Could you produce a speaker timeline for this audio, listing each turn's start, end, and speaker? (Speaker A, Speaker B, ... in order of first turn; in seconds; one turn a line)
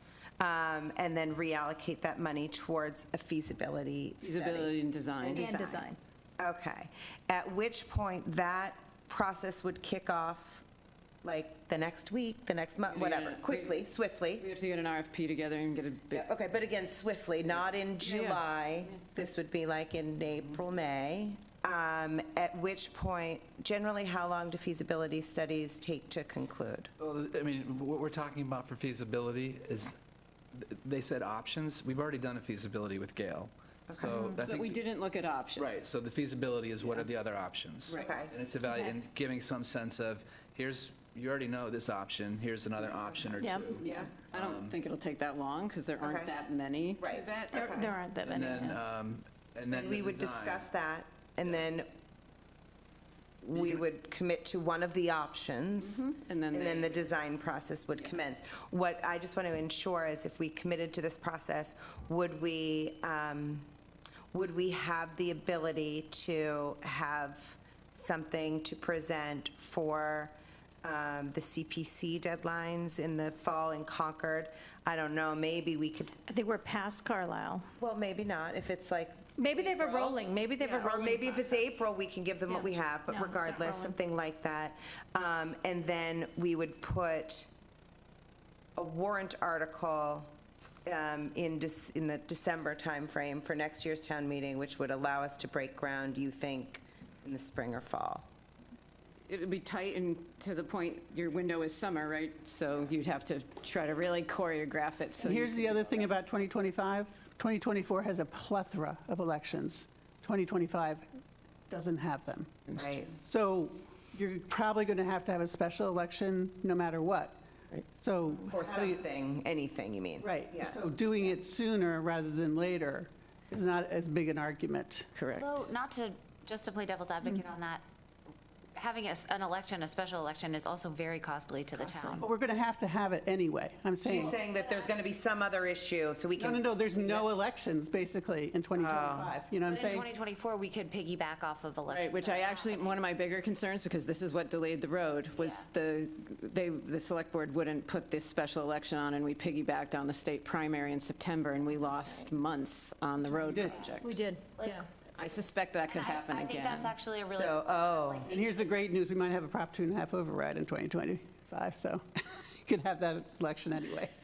Speaker A: 0.4-4.7
Speaker B: 4.2-5.5
Speaker A: 5.2-5.9
Speaker C: 5.3-6.0
Speaker A: 6.4-10.6
Speaker A: 11.2-14.5
Speaker B: 12.8-13.8
Speaker B: 14.4-16.3
Speaker A: 16.1-26.9
Speaker B: 18.0-18.4
Speaker D: 27.0-30.0
Speaker D: 30.6-34.9
Speaker A: 33.9-34.2
Speaker C: 34.1-34.4
Speaker B: 34.3-35.8
Speaker D: 35.6-44.8
Speaker B: 36.8-37.1
Speaker A: 38.0-38.4
Speaker C: 43.4-43.7
Speaker B: 43.8-47.7
Speaker A: 43.8-44.1
Speaker A: 46.0-46.3
Speaker A: 47.0-47.9
Speaker C: 47.5-48.8
Speaker D: 48.2-50.7
Speaker A: 49.7-51.9
Speaker A: 53.4-63.7
Speaker B: 55.8-57.1
Speaker A: 64.3-76.2
Speaker C: 76.3-77.7
Speaker A: 77.8-87.5
Speaker C: 79.4-81.8
Speaker C: 82.5-84.0
Speaker A: 88.8-90.3
Speaker A: 90.8-98.3
Speaker B: 99.3-106.0
Speaker E: 105.2-111.1
Speaker E: 111.7-117.4
Speaker A: 112.8-113.1
Speaker E: 118.0-119.0
Speaker A: 118.5-120.8
Speaker E: 120.2-125.2
Speaker B: 125.2-125.5
Speaker F: 125.3-127.8
Speaker F: 128.8-132.3
Speaker C: 131.8-132.2
Speaker E: 132.2-134.4
Speaker A: 134.0-137.3
Speaker F: 134.5-134.9
Speaker E: 136.4-140.1
Speaker A: 138.7-139.3
Speaker F: 139.6-143.0
Speaker B: 141.9-154.2
Speaker F: 145.4-145.7
Speaker E: 153.3-153.8
Speaker C: 154.0-154.9
Speaker B: 155.2-157.0
Speaker F: 155.8-158.3
Speaker A: 157.3-158.3
Speaker E: 158.3-164.1